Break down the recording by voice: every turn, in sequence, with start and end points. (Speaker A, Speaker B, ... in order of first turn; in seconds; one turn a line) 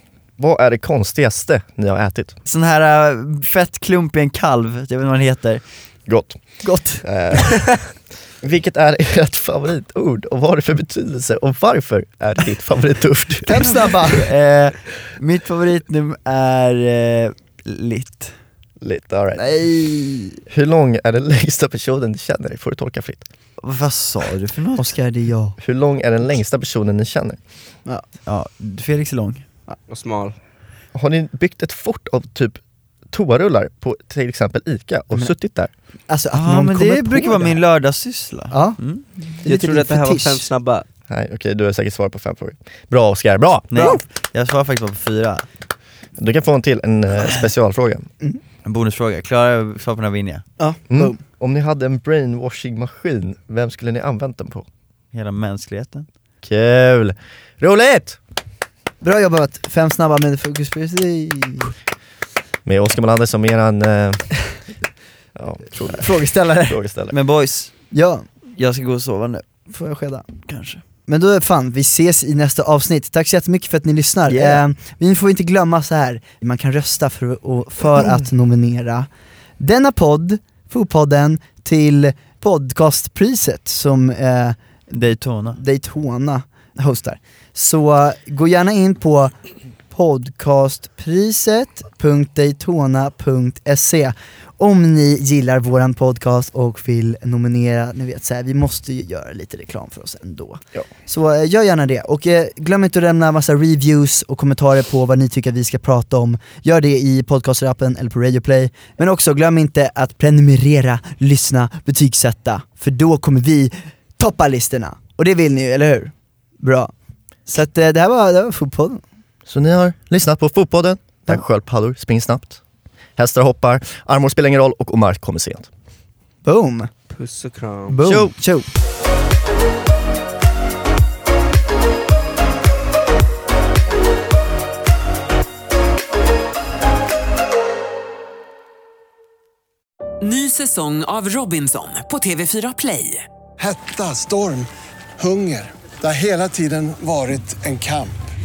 Speaker A: 0.4-2.4
Speaker B: 2.5-5.6
Speaker A: 6.1-6.4
Speaker C: 6.6-7.0
Speaker A: 7.0-7.8
Speaker A: 8.4-14.1
Speaker C: 13.4-14.3
Speaker B: 14.2-18.4
Speaker A: 18.8-19.5
Speaker C: 19.4-20.4
Speaker A: 20.5-23.3
Speaker B: 23.6-25.0
Speaker C: 24.8-25.6
Speaker A: 25.6-27.4
Speaker B: 28.2-29.4
Speaker D: 29.9-30.4
Speaker A: 30.9-32.6
Speaker A: 33.1-35.7
Speaker C: 36.1-37.6
Speaker B: 36.3-39.0
Speaker C: 38.5-40.5
Speaker D: 39.5-40.9
Speaker A: 41.1-44.0
Speaker B: 43.7-45.5
Speaker C: 43.8-44.0
Speaker A: 46.2-48.1
Speaker B: 48.6-50.5
Speaker C: 50.6-51.2
Speaker A: 50.9-54.7
Speaker B: 55.1-56.1
Speaker A: 56.4-58.2
Speaker C: 59.0-61.7
Speaker A: 62.6-64.3
Speaker A: 65.4-67.1
Speaker C: 65.9-66.8
Speaker B: 67.1-67.7
Speaker C: 67.9-68.2
Speaker B: 68.5-69.5
Speaker C: 69.7-70.2
Speaker B: 70.5-70.8
Speaker C: 71.1-79.1
Speaker B: 74.3-74.6
Speaker C: 79.6-84.6
Speaker B: 84.9-85.6
Speaker C: 85.5-89.3
Speaker C: 89.9-116.9
Speaker C: 117.5-119.0
Speaker A: 119.5-122.6
Speaker A: 123.2-125.7
Speaker C: 126.5-126.9
Speaker D: 127.1-128.0
Speaker C: 127.9-128.7
Speaker A: 128.0-128.3
Speaker E: 140.2-143.3
Speaker F: 143.6-148.1